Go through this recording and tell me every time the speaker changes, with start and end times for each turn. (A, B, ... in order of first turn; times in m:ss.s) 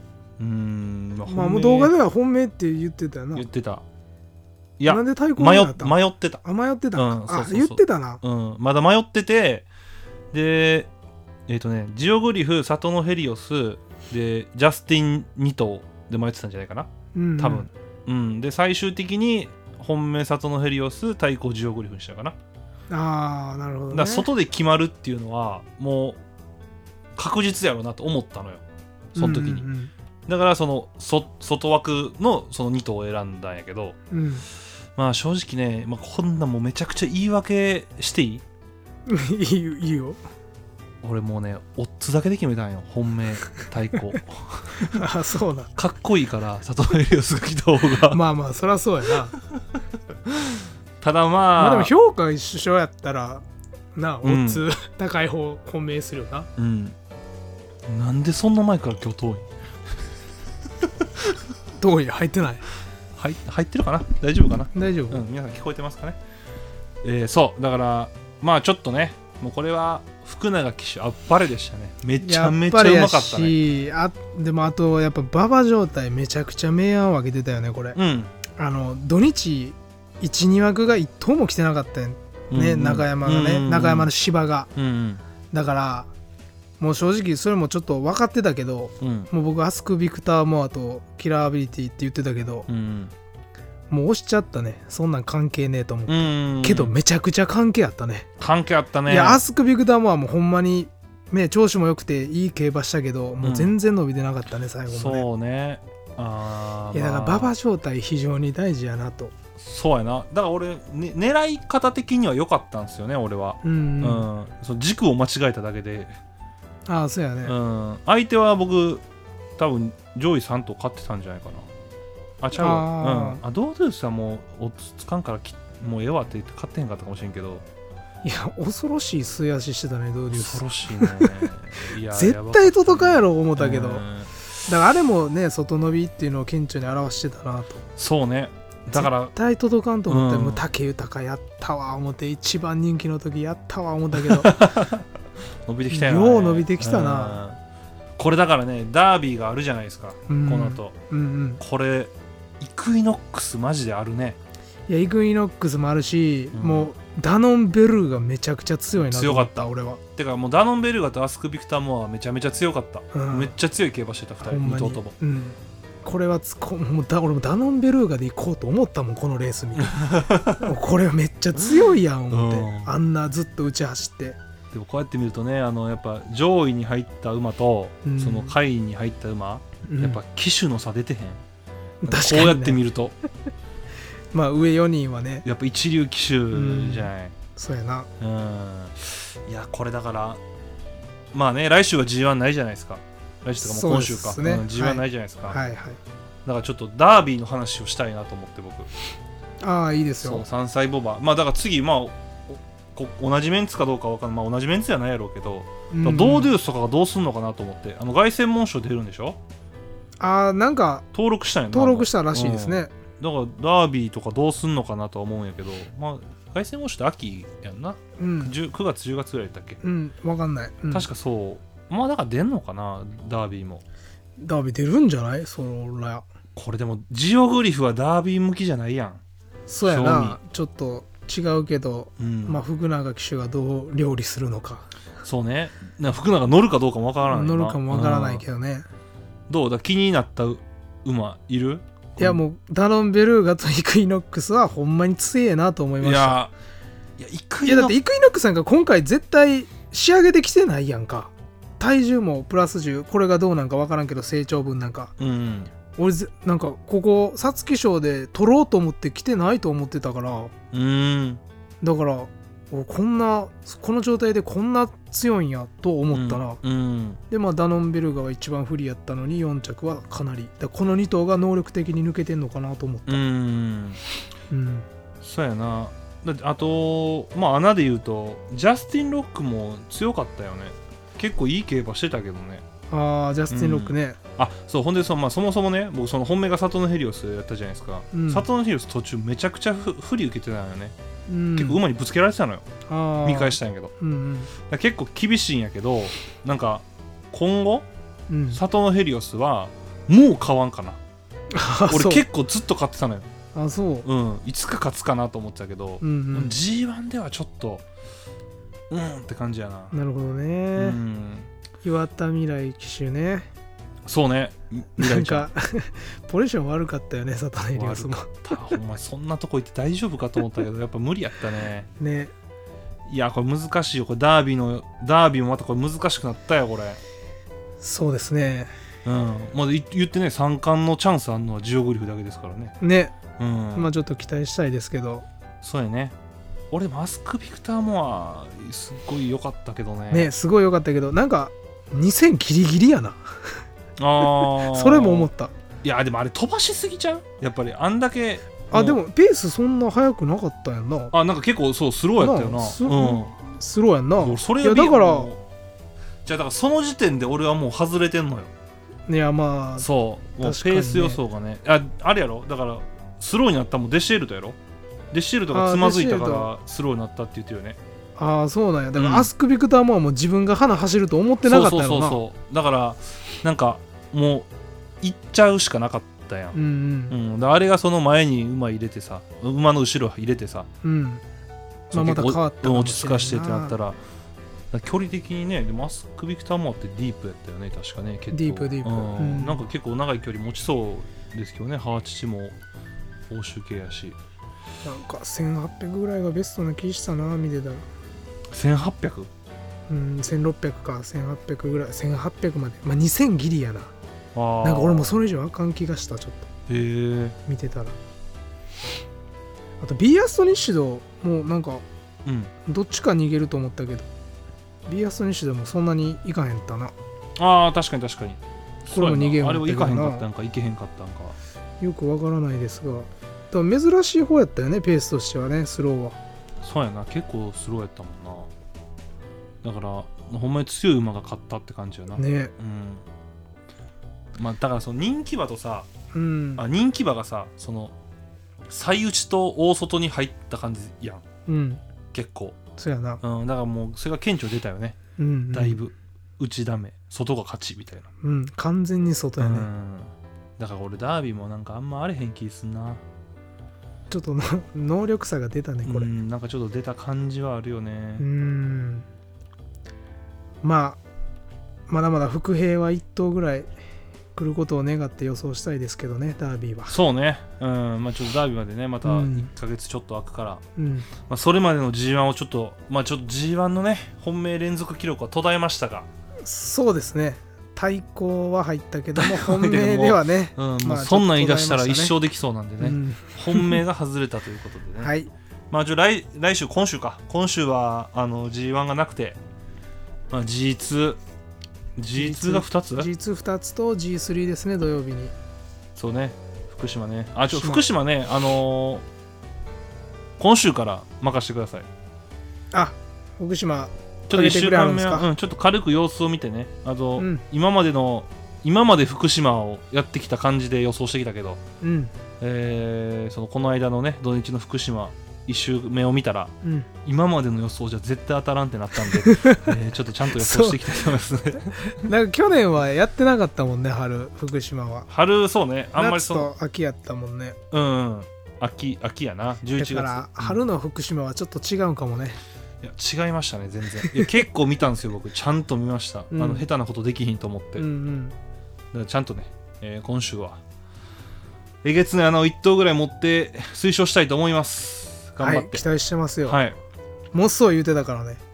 0:00.4-0:01.9 A
0:01.3-0:03.5 B
0:03.3-0:03.8 A
0:04.8-0:06.4 A
0:04.9-0:08.2 B
0:07.0-0:09.7 A
0:10.3-0:10.9 A
0:11.5-0:22.4 A
0:17.1-0:17.7 B
0:22.9-0:24.3 B
0:23.9-0:26.2 A
0:27.2-0:28.6 A
0:29.2-0:29.7 A
0:29.2-0:29.9 B
0:30.3-0:34.0 A
0:34.1-0:34.4 B
0:35.0-0:38.4 A
0:39.1-0:40.2 B
0:41.0-0:45.0 A
0:44.8-0:45.7 B
0:45.8-0:48.2 A
0:48.1-0:49.4 B
0:50.3-0:51.9 A
0:51.6-0:53.4 B
0:54.0-0:56.5 B
0:54.2-0:54.6 A
0:56.6-0:57.0 A
0:57.9-0:59.5 A
1:01.8-1:02.6 B
1:03.2-1:06.2 A
1:04.7-1:05.2 B
1:07.0-1:13.6 A
1:12.2-1:18.0 B
1:18.0-1:18.3 A
1:18.6-1:24.7 B
1:22.5-1:24.1 A
1:24.8-1:25.2 A
1:25.5-1:26.1 B
1:26.8-1:32.7 B
1:29.0-1:29.3 A
1:32.7-1:33.1 A
1:33.9-1:38.3 B
1:36.1-1:37.0 A
1:38.4-1:39.4 A
1:39.1-1:45.2 B
1:43.4-1:43.7 A
1:44.9-1:47.5 A
1:46.9-1:49.3 B
1:49.6-1:56.2 A
1:53.6-1:54.3 B
1:56.9-1:57.6 B
1:57.4-1:59.0 A
1:59.6-2:01.7 A
2:02.4-2:07.6 A
2:02.6-2:03.4 B
2:08.2-2:11.5 B
2:10.3-2:14.3 A
2:12.1-2:14.1 B
2:14.7-2:17.8 B
2:18.0-2:19.3 A
2:18.9-2:24.6 B
2:20.1-2:20.6 A
2:24.2-2:25.1 A
2:25.7-2:27.6 A
2:25.9-2:27.4 B
2:28.2-2:30.9 A
2:30.3-2:31.6 B
2:31.6-2:34.4 A
2:34.9-2:40.0 B
2:36.5-2:36.9 A
2:39.0-2:39.6 A
2:40.2-2:45.1 A
2:43.1-2:43.5 B
2:44.4-2:54.4 B
2:49.8-2:50.7 A
2:51.6-2:52.9 A
2:54.7-3:01.4 A
2:58.0-2:58.6 B
2:59.9-3:00.2 B
3:02.0-3:02.8 B
3:02.1-3:03.2 A
3:04.3-3:05.4 B
3:05.4-3:07.4 A
3:06.5-3:08.1 B
3:08.2-3:10.4 A
3:11.3-3:15.6 A
3:13.6-3:16.0 B
3:16.4-3:18.9 A
3:19.6-3:20.4 B
3:20.2-3:29.4 A
3:25.9-3:26.5 B
3:30.2-3:31.0 B
3:31.1-3:39.8 A
3:31.7-3:32.9 B
3:38.2-3:38.6 B
3:39.8-3:41.1 B
3:40.9-3:43.8 A
3:44.4-3:46.2 B
3:46.6-3:49.2 A
3:49.7-3:54.9 B
3:49.8-3:50.4 A
3:52.2-3:52.6 A
3:55.2-3:58.4 A
3:57.3-3:58.9 B
3:59.5-4:02.4 A
4:02.2-4:06.4 B
4:06.0-4:06.5 A
4:07.2-4:08.0 A
4:07.6-4:15.1 B
4:15.2-4:15.7 A
4:16.0-4:20.5 B
4:20.7-4:21.4 A
4:21.8-4:26.6 B
4:26.1-4:27.2 A
4:27.3-4:33.2 B
4:33.1-4:34.0 A
4:34.5-4:34.9 B
4:35.2-4:42.6 A
4:42.9-4:44.2 B
4:43.5-4:51.0 A
4:48.1-4:48.5 B
4:51.3-4:51.8 B
4:51.6-4:52.6 A
4:52.9-4:54.5 B
4:53.2-4:53.9 A
4:54.6-4:57.9 A
4:58.3-4:58.6 B
4:58.5-5:01.0 A
5:01.5-5:02.2 B
5:01.9-5:03.3 A
5:03.6-5:04.1 B
5:04.0-5:07.8 A
5:06.0-5:06.6 B
5:08.9-5:09.9 A
5:09.9-5:11.0 B
5:10.8-5:11.5 A
5:11.8-5:13.5 B
5:14.0-5:15.5 A
5:15.0-5:18.6 B
5:17.7-5:21.9 A
5:22.0-5:22.3 B
5:23.1-5:27.0 A
5:27.8-5:28.7 B
5:29.0-5:32.8 A
5:32.8-5:33.1 B
5:33.4-5:33.9 A
5:33.8-5:35.3 B
5:35.6-5:36.2 A
5:36.7-5:40.3 A
5:40.1-5:43.2 B
5:44.0-5:45.3 A
5:44.2-5:45.5 B
5:45.8-5:49.0 A
5:48.7-5:51.1 B
5:51.1-5:53.3 A
5:52.2-5:55.3 B
5:54.2-5:55.4 A
5:56.2-5:58.5 A
5:59.1-5:59.9 B
5:59.8-6:04.6 A
6:00.4-6:01.2 B
6:05.1-6:07.8 A
6:05.5-6:06.5 B
6:08.2-6:12.2 B
6:09.0-6:09.3 A
6:11.4-6:14.5 A
6:15.0-6:16.6 A
6:16.5-6:17.2 B
6:17.1-6:20.7 A
6:20.8-6:21.2 B
6:21.9-6:23.8 B
6:21.9-6:24.0 A
6:24.7-6:32.6 A
6:28.3-6:29.6 B
6:33.3-6:34.2 A
6:34.8-6:37.9 B
6:38.5-6:39.3 A
6:39.9-6:43.9 B
6:44.4-6:45.2 A
6:44.6-6:46.5 B
6:46.7-6:47.4 A
6:47.5-6:48.0 B
6:49.8-6:51.8 B
6:52.2-6:52.5 A
6:52.7-6:54.1 B
6:54.9-6:56.9 B
6:57.4-7:01.4 A
6:58.9-7:00.3 B
7:01.8-7:06.2 B
7:06.6-7:08.5 A
7:09.6-7:13.0 A
7:12.2-7:12.5 B
7:14.4-7:15.9 A
7:16.1-7:16.6 B
7:16.6-7:17.9 A
7:18.7-7:21.2 A
7:21.5-7:21.8 B
7:22.1-7:22.6 A
7:22.8-7:23.2 B
7:23.2-7:25.0 A
7:25.2-7:25.8 B
7:25.5-7:28.1 A
7:28.2-7:29.7 B
7:29.4-7:33.0 A
7:34.1-7:36.1 B
7:35.9-7:38.2 A
7:38.2-7:39.1 B
7:40.6-7:41.0 B
7:41.9-7:43.7 B
7:44.4-7:47.0 B
7:46.9-7:50.6 A
7:49.0-7:49.5 B
7:50.8-7:51.1 B
7:51.3-7:56.1 A
7:56.4-8:02.2 B
7:59.2-8:05.1 A
8:02.8-8:03.8 B
8:05.0-8:05.3 B
8:05.7-8:09.4 A
8:10.3-8:11.2 A
8:12.0-8:13.1 A
8:12.2-8:15.3 B
8:16.0-8:19.0 A
8:17.5-8:17.8 B
8:20.4-8:21.9 A
8:22.7-8:25.3 B
8:24.3-8:31.6 A
8:27.2-8:27.4 B
8:31.8-8:32.1 B
8:32.4-8:36.5 A
8:36.6-8:36.9 B
8:37.0-8:42.0 A
8:39.1-8:39.7 B
8:40.3-8:41.0 B
8:41.7-8:45.1 B
8:45.1-8:46.5 A
8:46.0-8:47.6 B
8:47.7-8:50.6 A
8:49.8-8:52.4 B
8:52.8-8:57.8 A
8:56.3-8:56.7 B
8:57.8-8:58.4 B
8:58.9-9:00.6 A
9:01.8-9:05.8 A
9:05.4-9:06.6 B
9:06.4-9:06.8 A
9:07.3-9:08.4 B